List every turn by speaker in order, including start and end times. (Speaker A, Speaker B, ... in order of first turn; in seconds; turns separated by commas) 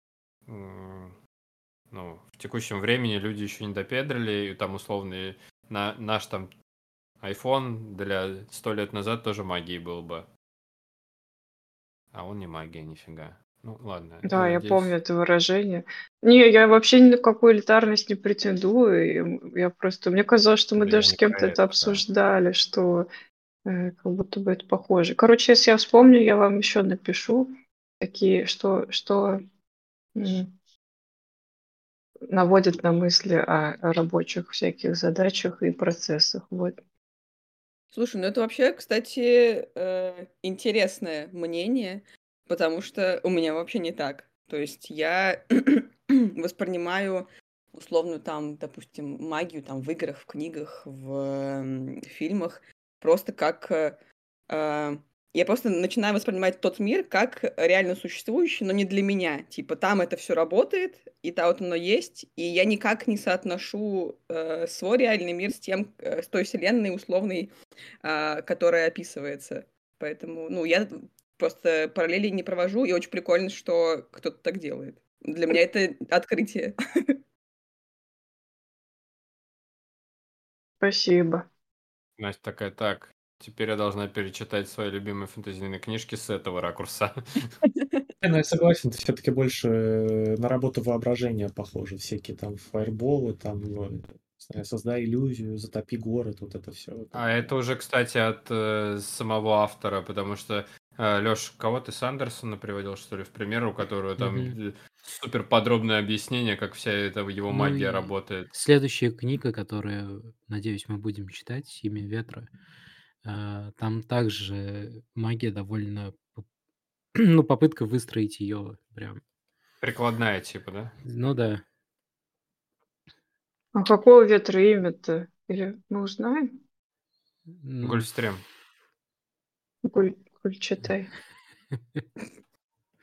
Speaker A: 0.5-1.1, Speaker A: 1.9-6.5, Speaker A: 7.2-10.3, Speaker A: 12.1-14.9, Speaker B: 14.2-23.1, Speaker A: 20.8-22.0, Speaker B: 23.6-29.4, Speaker B: 30.1-30.5, Speaker B: 32.3-36.8, Speaker C: 37.9-67.5, Speaker C: 68.0-77.2, Speaker B: 80.8-81.5, Speaker A: 82.2-87.5, Speaker C: 87.7-88.0, Speaker D: 88.2-97.5, Speaker A: 97.1-108.5, Speaker E: 104.2-104.5, Speaker E: 107.5-112.5, Speaker E: 113.2-116.4, Speaker E: 117.2-119.2, Speaker A: 119.8-121.0, Speaker E: 121.0-121.6, Speaker B: 123.7-126.5, Speaker E: 127.5-128.1, Speaker A: 127.8-128.4, Speaker B: 129.8-131.1, Speaker E: 131.7-132.0